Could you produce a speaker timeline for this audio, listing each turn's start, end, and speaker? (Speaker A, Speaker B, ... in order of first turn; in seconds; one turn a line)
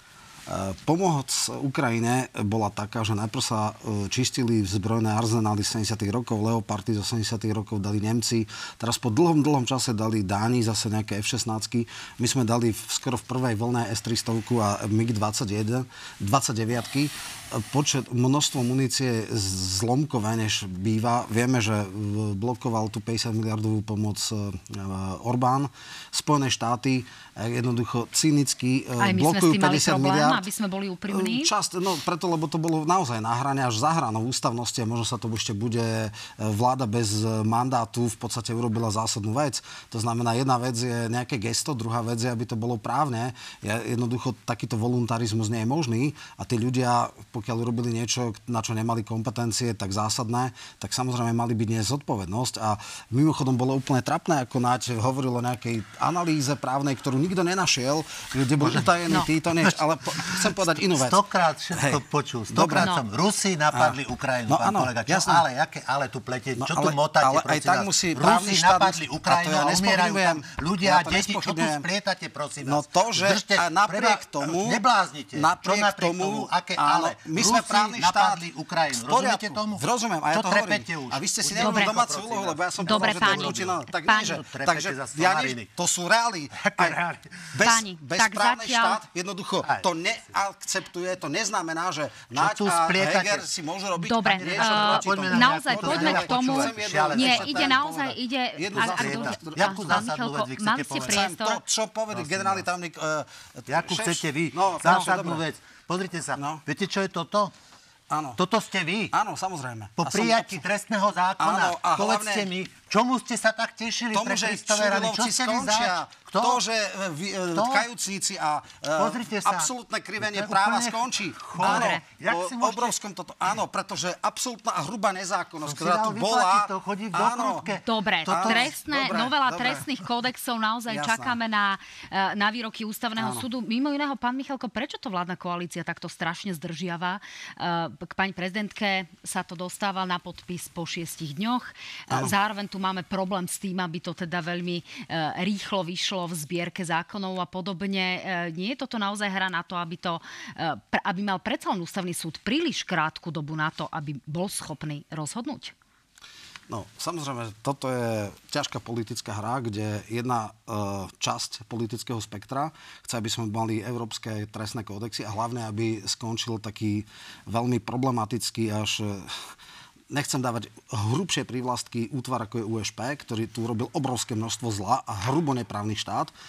Speaker A: 0.5-30.4
Speaker B: 29.0-31.5
Speaker A: 31.1-61.2
Speaker C: 58.6-58.9
Speaker C: 59.6-85.7
Speaker A: 61.7-62.9
Speaker B: 62.8-63.0
Speaker A: 64.5-65.4
Speaker A: 66.6-71.8
Speaker A: 72.6-74.8
Speaker A: 75.3-87.0
Speaker B: 81.6-81.9
Speaker B: 82.8-84.3
Speaker C: 86.5-87.5
Speaker A: 87.5-100.0
Speaker B: 87.6-89.0
Speaker C: 92.3-93.5
Speaker B: 94.0-101.6
Speaker C: 94.2-97.8
Speaker C: 98.7-101.3
Speaker A: 100.9-105.4
Speaker C: 102.1-102.7
Speaker C: 103.7-107.5
Speaker A: 106.3-106.6
Speaker A: 108.1-108.4
Speaker C: 108.3-109.1
Speaker A: 109.1-110.6
Speaker C: 110.0-116.6
Speaker A: 111.4-112.5
Speaker A: 114.1-127.7
Speaker C: 117.5-117.8
Speaker C: 119.0-122.9
Speaker B: 121.6-122.0
Speaker C: 125.7-129.2
Speaker B: 127.8-155.7
Speaker A: 128.3-129.9
Speaker A: 130.9-131.4
Speaker A: 133.2-133.4
Speaker A: 156.7-169.5
Speaker A: 170.1-176.3